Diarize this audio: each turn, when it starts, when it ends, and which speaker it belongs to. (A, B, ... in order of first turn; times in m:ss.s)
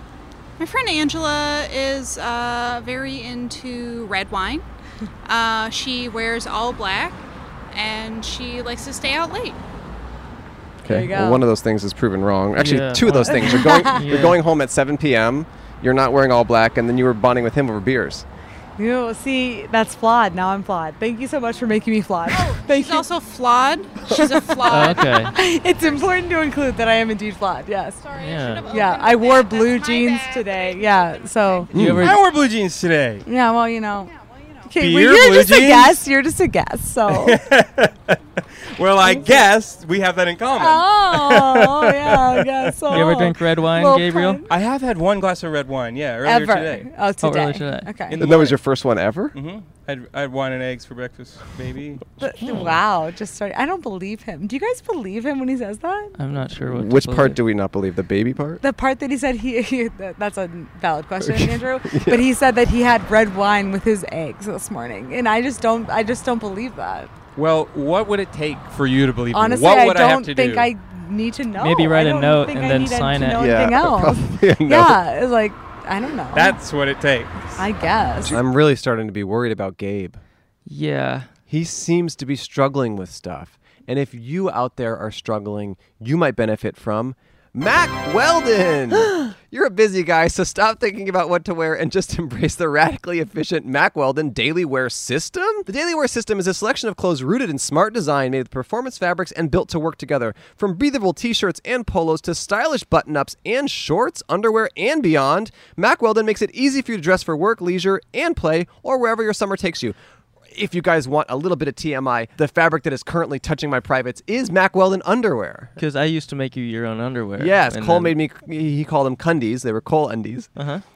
0:00.6-0:04.6 A
0:05.3-0:09.6 A
0:10.8-0:18.2 B
0:10.9-0:11.4 C
0:12.6-0:14.4 D
0:13.2-0:14.0 C
0:18.8-0:23.1 C
0:22.3-0:26.1 A
0:24.1-0:28.1 C
0:24.7-0:25.3 D
0:28.0-0:31.7 A
0:28.2-0:28.7 D
0:28.6-0:31.7 C
0:31.7-0:32.1 B
0:31.7-0:32.2 D
0:32.0-0:33.3 E
0:33.3-0:34.1 C
0:34.1-0:34.7 A
0:34.7-0:37.4 C
0:34.8-0:36.0 E
0:37.1-0:43.1 E
0:39.0-0:39.5 C
0:40.6-0:44.5 C
0:42.9-0:44.4 D
0:44.5-0:46.9 E
0:46.2-0:48.2 C
0:47.2-0:47.9 D
0:48.1-0:48.6 E
0:48.2-0:49.3 B
0:49.3-0:52.0 E
0:52.2-0:56.1 C
0:56.2-0:57.4 D
0:56.6-0:58.6 B
0:58.6-1:07.1 C
1:01.2-1:02.3 B
1:07.4-1:10.7 E
1:09.3-1:16.6 C
1:11.6-1:13.4 D
1:13.4-1:15.0 B
1:16.3-1:17.6 E
1:17.6-1:18.4 C
1:18.2-1:20.2 B
1:20.7-1:21.3 D
1:21.5-1:50.0 B
1:50.5-1:55.7 B
1:55.8-1:58.2 D
1:57.4-2:00.5 B
2:00.6-2:00.8 D